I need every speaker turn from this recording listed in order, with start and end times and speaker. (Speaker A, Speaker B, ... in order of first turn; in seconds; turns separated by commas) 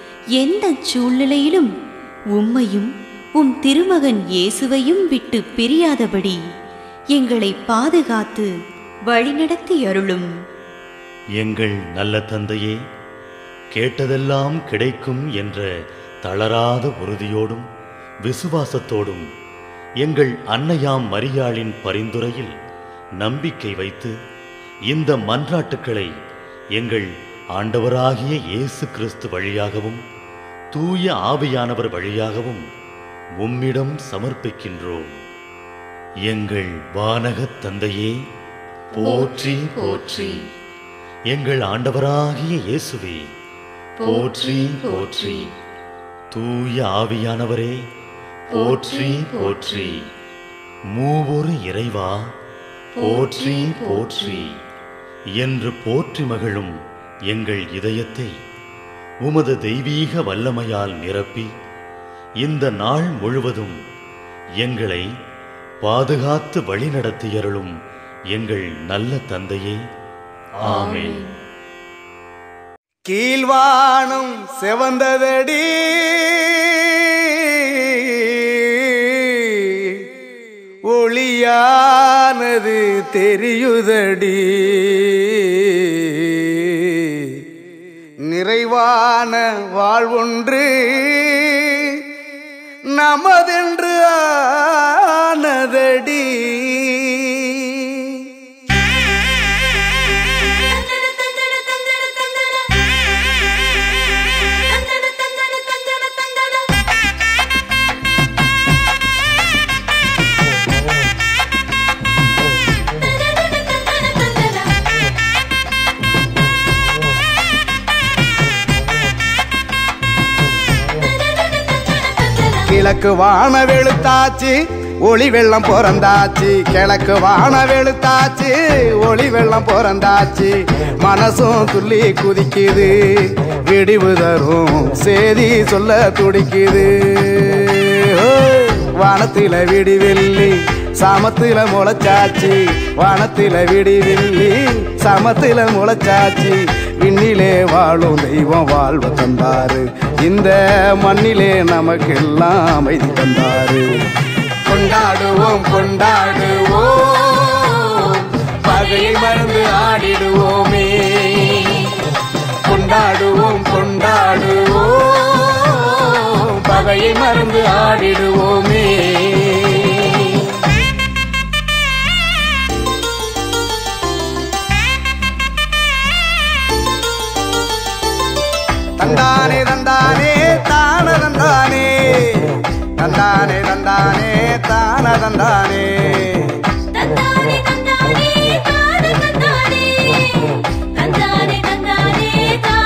Speaker A: 0.4-1.7, Speaker A: 2.4-6.4, Speaker A: 7.2-8.5, Speaker A: 9.1-10.3, Speaker B: 11.4-12.8, Speaker B: 13.7-15.7, Speaker B: 16.2-17.7, Speaker B: 18.2-19.3, Speaker B: 20.0-22.5, Speaker B: 23.2-24.1, Speaker B: 24.9-26.1, Speaker B: 26.8-30.0, Speaker B: 30.7-32.6, Speaker B: 33.4-35.1, Speaker B: 36.3-38.2, Speaker B: 39.0-40.4, Speaker A: 39.9-40.3, Speaker B: 41.3-43.2, Speaker B: 44.0-45.5, Speaker A: 44.9-45.3, Speaker B: 46.3-47.8, Speaker B: 48.5-50.1, Speaker A: 48.8-49.4, Speaker B: 50.9-52.2, Speaker B: 53.0-54.5, Speaker A: 53.2-54.4, Speaker B: 55.4-56.7, Speaker B: 57.3-58.3, Speaker B: 59.2-61.5, Speaker B: 62.4-63.8, Speaker B: 64.6-65.1, Speaker B: 65.8-67.7, Speaker B: 68.3-69.8, Speaker B: 70.6-71.2, Speaker A: 70.9-71.2, Speaker C: 73.1-80.0, Speaker C: 80.9-87.4, Speaker C: 88.2-92.0, Speaker C: 92.9-98.3, Speaker C: 122.6-154.0, Speaker C: 154.7-162.0, Speaker C: 162.7-170.5, Speaker C: 179.0-186.6, Speaker A: 191.1-192.1